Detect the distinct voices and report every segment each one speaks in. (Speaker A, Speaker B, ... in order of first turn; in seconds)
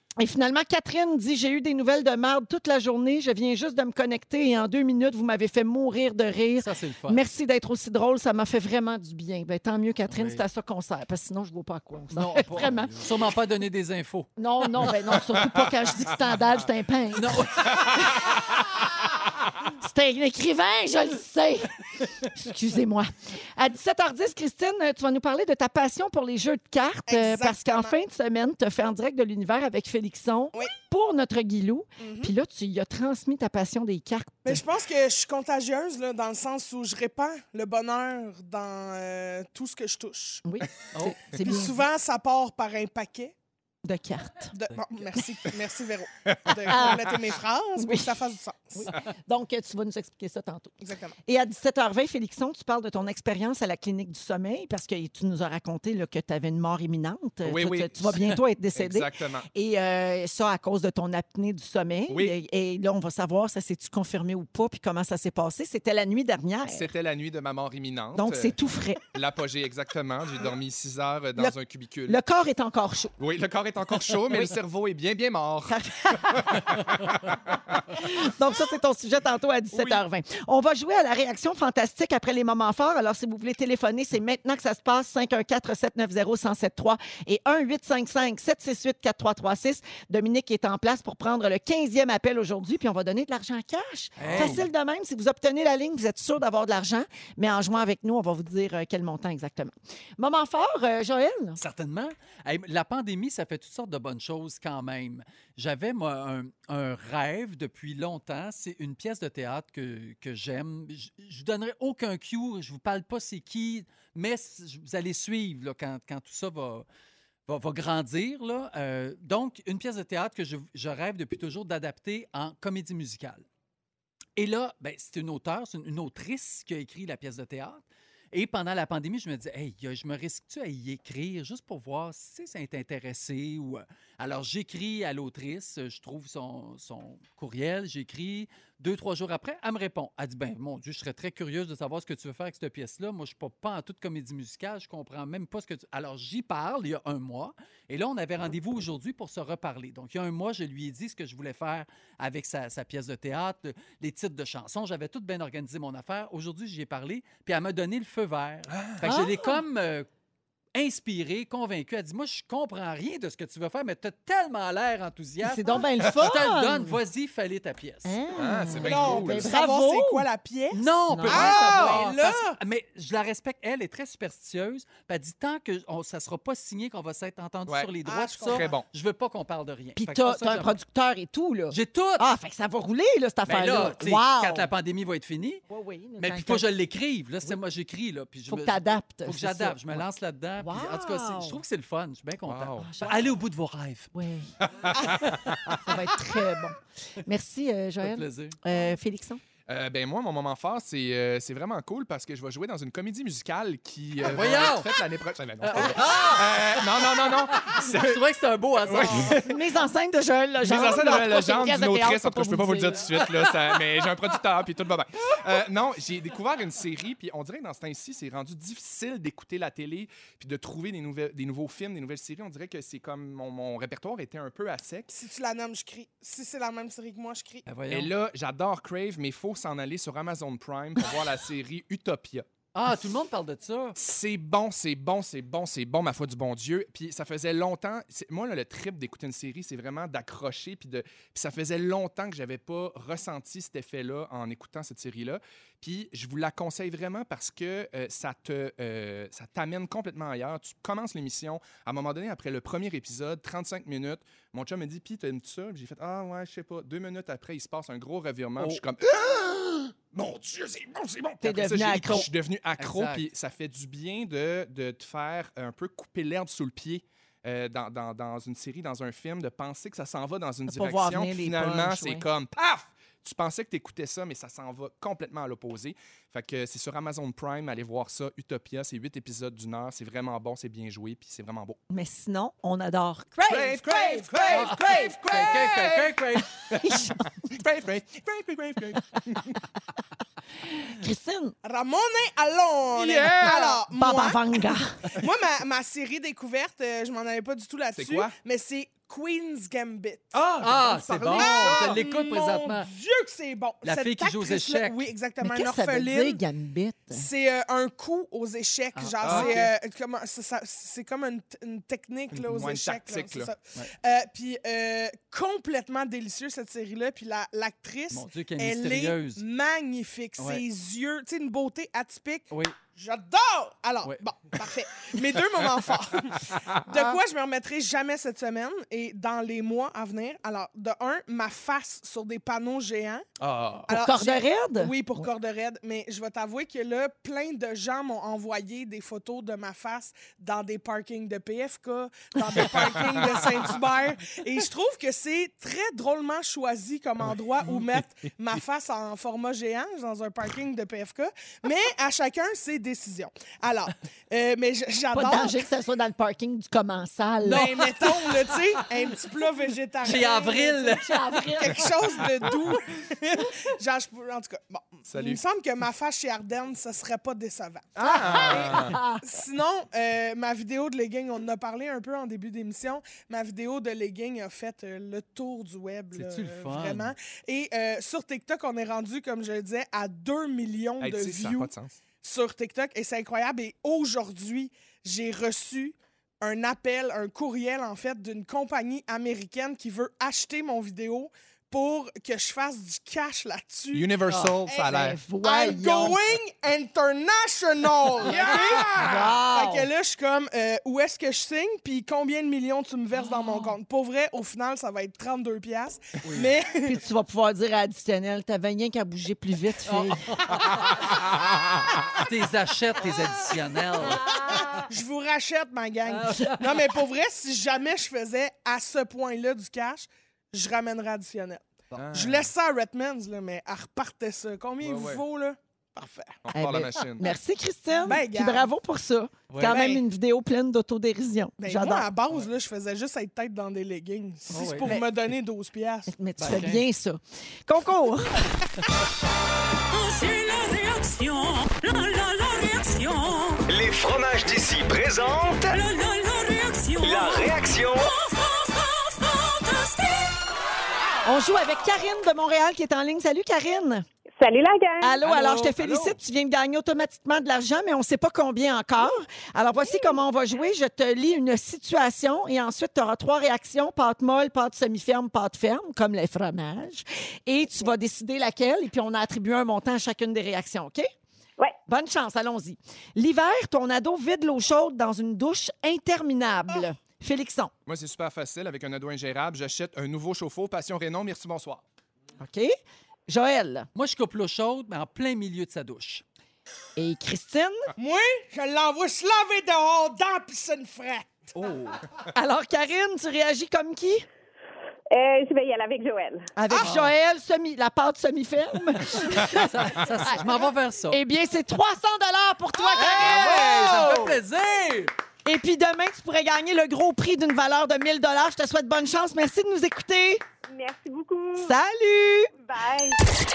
Speaker A: 0.2-13.0, 14.4-18.3, 19.8-34.6, 40.5-41.8, 43.9-44.5, 46.7-47.1, 47.8-48.2, 48.7-50.7, 51.3-66.9, 68.2-69.0, 72.1-73.1, 75.7-76.8, 77.9-101.6, 159.0-159.6, 165.4-167.0, 168.1-170.3, 171.1-171.6, 180.0-184.7, 185.7-186.7, 188.5-190.1, 190.6-191.6, 192.8-193.3, 194.1-194.5, 195.8-199.4, 209.3-213.2, 261.4-262.3, 270.7-272.2, 281.9-283.4, 286.8-287.2, 290.8-291.5, 294.0-295.0, 305.4-307.3, 333.9-334.9, 355.1-357.8, 361.0-361.8, 368.7-369.2, 394.9-396.2, 399.0-399.9, 406.8-410.3, 426.6-432.1, 436.1-438.5, 451.2-454.1, 455.0-471.1, 471.9-477.7, 482.4-482.7, 483.3-483.9, 487.0-487.9, 492.3-494.3, 496.6-500.5, 501.1-503.6, 505.4-510.4, 511.6-512.5
Speaker B: 6.6-7.2, 10.1-10.4, 12.1-14.3, 17.1-18.0, 40.9-41.3, 94.2-94.7, 101.6-116.9, 117.5-123.5, 124.4-160.1, 160.7-168.2, 170.7-180.8, 181.7-182.3, 183.5-185.6, 186.2-194.1, 195.3-195.8, 198.0-198.6, 204.2-204.9, 205.6-209.5, 227.7-228.1, 232.7-234.0, 258.6-258.8, 262.8-263.3, 284.5-286.5, 300.6-302.9, 303.8-305.1, 308.9-309.7, 318.1-319.4, 320.4-320.6, 357.4-358.9, 360.0-361.7, 376.1-377.1, 394.3-394.6, 406.2-406.5, 409.9-410.9, 412.2-414.4, 416.1-416.8, 429.5-429.9, 434.5-434.9, 436.4-436.8, 455.2-456.2, 483.9-486.2, 491.6-492.0, 496.7-497.1, 499.2-501.2, 502.9-505.1
Speaker C: 27.1-28.0, 32.0-32.3, 34.5-40.4, 41.3-43.3, 44.5-48.9, 50.8-51.2, 168.8-172.6, 178.1-178.7, 225.1-227.7, 283.4-285.8, 291.6-294.4, 295.2-300.3, 301.3-306.4, 307.1-333.2, 333.9-355.6, 357.5-361.0, 361.6-381.7, 382.2-394.1, 394.7-406.9, 414.7-426.4, 428.0-428.7, 429.6-430.0, 431.6-436.1, 488.0-491.5
Speaker D: 46.3-46.9, 57.5-59.5, 62.1-62.4, 66.7-68.6, 69.1-72.2, 73.2-78.0, 79.7-80.0, 94.2-94.6, 158.7-159.0, 168.3-169.5, 171.3-172.1, 178.4-178.9, 192.5-192.9, 194.6-195.8, 199.7-208.2, 208.8-209.5, 210.6-225.1, 227.9-232.5, 234.0-281.8, 283.5-289.6, 292.9-293.8, 298.0-298.4, 300.3-302.0, 309.2-309.7, 312.3-313.5, 326.5-326.8, 333.4-333.9, 342.6-343.6, 347.9-348.3, 365.1-365.4, 368.0-369.0, 381.0-382.0, 393.9-395.2, 398.2-399.3, 421.9-422.5, 424.8-425.2, 426.4-427.3, 477.9-481.8, 502.9-504.4
Speaker E: 439.9-443.6, 445.7-447.6, 448.3-450.4
Speaker F: 443.7-445.8, 447.0-448.1
Speaker G: 454.4-455.2, 495.1-496.5, 510.7-511.7, 512.5-513.2